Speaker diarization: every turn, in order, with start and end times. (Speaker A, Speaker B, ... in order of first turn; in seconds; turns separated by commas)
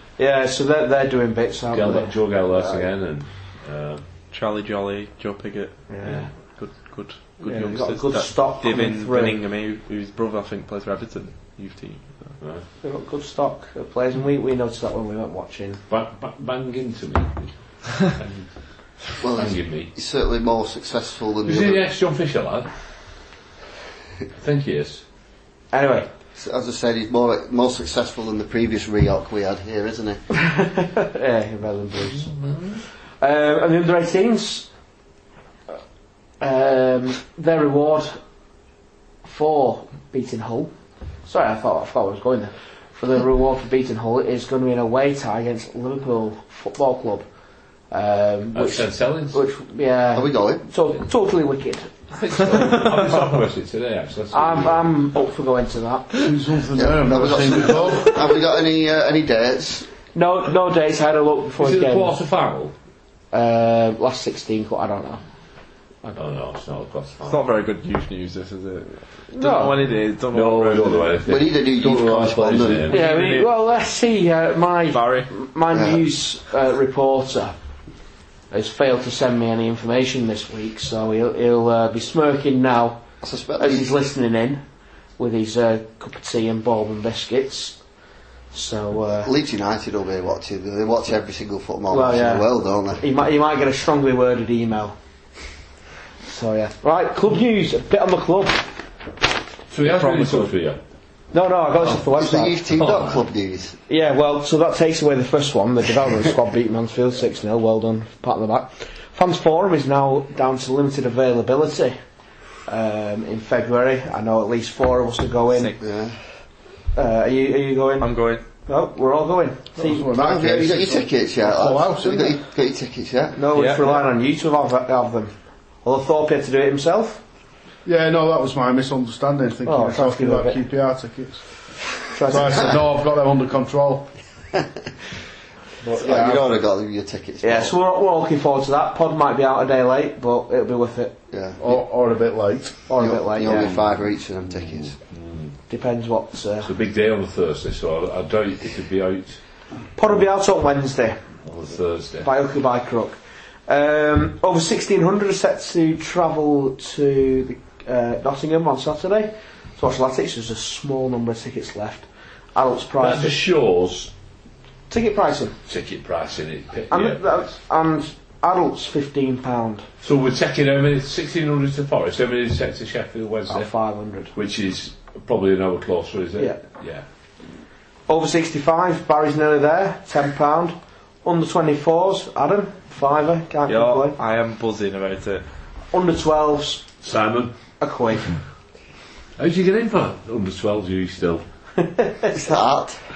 Speaker A: 0.2-2.8, Speaker B: 1.7-4.0, Speaker C: 4.3-12.4, Speaker A: 5.9-6.3, Speaker B: 6.0-6.3, Speaker A: 7.4-9.4, Speaker B: 12.4-12.6, Speaker A: 12.8-15.8, Speaker B: 15.9-19.9, Speaker D: 19.2-21.8, Speaker B: 21.4-22.7, Speaker B: 24.3-25.0, Speaker A: 25.7-26.1, Speaker D: 26.4-30.2, Speaker A: 30.3-32.3, Speaker B: 32.0-32.8, Speaker A: 33.2-34.7, Speaker A: 36.4-38.2, Speaker A: 39.2-40.7, Speaker A: 41.2-47.3, Speaker A: 47.9-51.9, Speaker B: 48.5-49.4, Speaker D: 50.1-50.7, Speaker B: 52.1-54.9, Speaker A: 54.3-56.2, Speaker E: 56.2-58.2, Speaker D: 56.7-59.9, Speaker A: 60.1-62.1, Speaker B: 61.6-62.7, Speaker A: 63.3-65.2, Speaker B: 66.1-67.4, Speaker C: 67.2-71.2, Speaker A: 69.3-69.8, Speaker B: 70.3-73.0, Speaker D: 71.2-73.0, Speaker A: 72.9-77.5, Speaker C: 73.0-73.5, Speaker C: 74.9-75.3, Speaker D: 75.7-76.0, Speaker A: 78.5-83.0, Speaker D: 83.2-83.9, Speaker A: 83.6-84.6, Speaker A: 85.2-87.8, Speaker A: 88.5-89.3, Speaker D: 89.2-93.0, Speaker A: 91.9-92.5, Speaker A: 93.0-95.0, Speaker A: 96.2-98.7, Speaker B: 99.7-100.8, Speaker C: 99.8-100.5, Speaker A: 101.3-102.6, Speaker D: 101.8-103.8, Speaker B: 102.7-103.2, Speaker A: 103.9-112.0, Speaker A: 112.7-115.7, Speaker C: 115.5-115.8, Speaker D: 115.8-116.2, Speaker A: 116.9-120.1, Speaker C: 118.0-118.4, Speaker E: 119.8-122.4, Speaker D: 120.1-123.4, Speaker A: 123.3-127.2, Speaker C: 123.5-124.0, Speaker E: 127.8-131.5, Speaker A: 129.7-130.6, Speaker A: 132.1-132.8, Speaker E: 132.3-134.1, Speaker E: 135.8-136.6, Speaker D: 136.0-137.7, Speaker A: 137.4-141.2, Speaker D: 141.3-141.8, Speaker E: 141.6-142.8, Speaker A: 142.9-143.7, Speaker D: 143.0-144.9, Speaker B: 145.1-145.5, Speaker A: 145.7-146.7, Speaker B: 146.6-149.4, Speaker A: 149.9-151.2, Speaker B: 151.4-152.3, Speaker A: 152.2-163.4, Speaker B: 163.0-164.1, Speaker A: 164.9-165.6, Speaker B: 165.7-167.5, Speaker A: 166.9-169.9, Speaker B: 170.0-173.7, Speaker A: 173.5-174.3, Speaker B: 174.3-177.0, Speaker A: 178.1-184.2, Speaker C: 183.7-185.4, Speaker A: 185.9-186.8, Speaker B: 187.0-187.5, Speaker A: 187.8-188.4, Speaker B: 189.4-191.4, Speaker A: 191.8-192.4, Speaker D: 192.3-193.0